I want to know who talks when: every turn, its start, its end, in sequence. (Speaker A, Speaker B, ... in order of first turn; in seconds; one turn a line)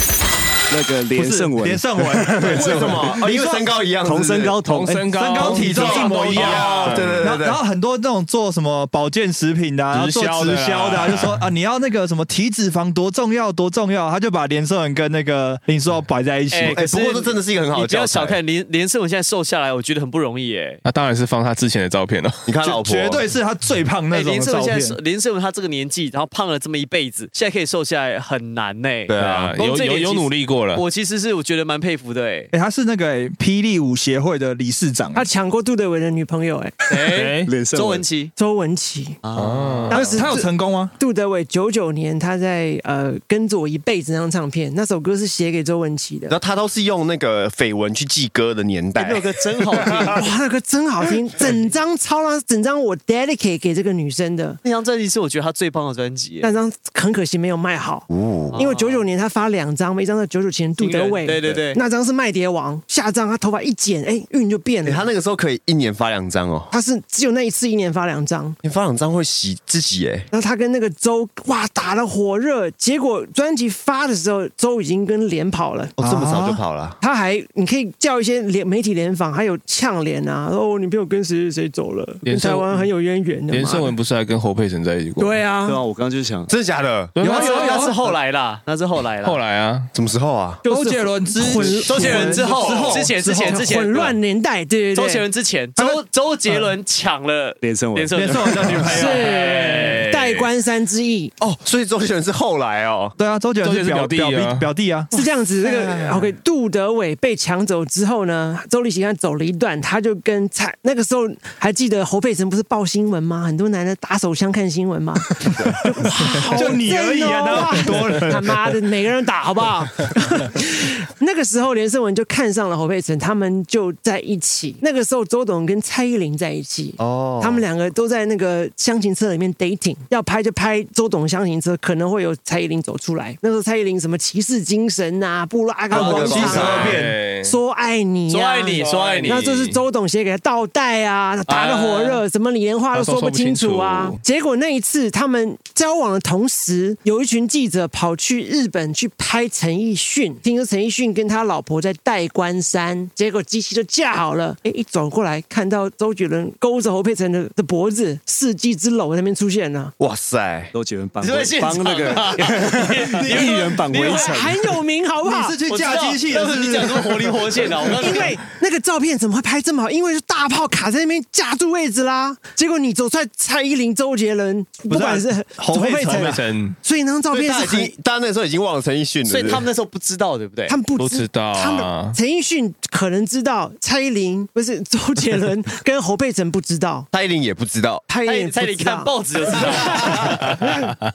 Speaker A: 0.7-3.2
Speaker B: 1.2-3.7
Speaker C: 2.5-4.6
Speaker A: 4.0-5.2
Speaker D: 4.7-7.3
Speaker B: 5.1-16.8
Speaker C: 5.3-7.6
Speaker D: 9.9-11.4
Speaker E: 16.5-20.8
Speaker C: 16.6-18.4
Speaker D: 20.9-22.5
Speaker C: 22.5-23.2
Speaker B: 22.6-25.0
Speaker E: 24.1-32.5
Speaker C: 29.1-29.6
Speaker D: 29.2-30.8
Speaker B: 32.5-35.3
Speaker F: 35.1-36.8
Speaker E: 36.9-38.3
Speaker D: 37.1-37.6
Speaker A: 37.5-38.1
Speaker F: 38.4-39.2
Speaker E: 39.2-39.9
Speaker D: 39.4-40.2
Speaker F: 39.9-46.3
Speaker B: 39.9-40.9
Speaker C: 46.3-49.2
Speaker E: 49.0-50.3
Speaker F: 50.1-54.6
Speaker E: 54.6-56.5
Speaker F: 56.4-65.1
Speaker C: 58.1-58.6
Speaker E: 58.5-59.0
Speaker E: 60.8-61.8
Speaker C: 64.8-66.7
Speaker F: 66.7-68.6
Speaker C: 68.6-70.3
Speaker F: 70.3-76.0
Speaker B: 76.0-76.6
Speaker C: 76.0-77.0
Speaker F: 77.0-83.9
Speaker D: 82.2-82.9
Speaker D: 83.5-85.4
Speaker F: 85.2-85.8
Speaker A: 85.6-86.5
Speaker C: 86.5-87.2
Speaker D: 87.2-87.9
Speaker B: 87.2-88.0
Speaker E: 87.2-89.4
Speaker D: 89.2-89.9
Speaker C: 89.9-90.6
Speaker F: 90.6-95.2
Speaker B: 90.7-93.6
Speaker E: 91.9-94.2
Speaker C: 91.9-92.4
Speaker E: 94.9-99.0
Speaker B: 95.8-96.7
Speaker A: 97.6-98.6
Speaker B: 98.2-99.3
Speaker D: 98.9-100.5
Speaker F: 98.9-101.3
Speaker C: 101.4-103.2
Speaker B: 103.2-105.1
Speaker D: 103.6-104.7
Speaker F: 105.1-159.9
Speaker B: 116.5-118.8
Speaker C: 127.0-127.6
Speaker C: 135.9-137.0
Speaker B: 135.9-137.2
Speaker D: 136.3-137.6
Speaker E: 138.3-139.4
Speaker D: 138.8-139.8
Speaker E: 141.5-142.2
Speaker D: 142.9-144.2
Speaker C: 160.0-160.7
Speaker A: 160.7-164.8
Speaker E: 161.2-164.4
Speaker F: 164.0-165.6
Speaker B: 165.2-167.7
Speaker E: 165.7-168.4
Speaker F: 168.0-177.9
Speaker B: 174.9-176.4
Speaker D: 176.1-176.8
Speaker C: 177.3-179.7
Speaker E: 179.2-180.8
Speaker F: 180.7-187.1
Speaker D: 181.0-182.2
Speaker C: 187.1-188.1
Speaker F: 188.1-190.9
Speaker E: 188.2-190.2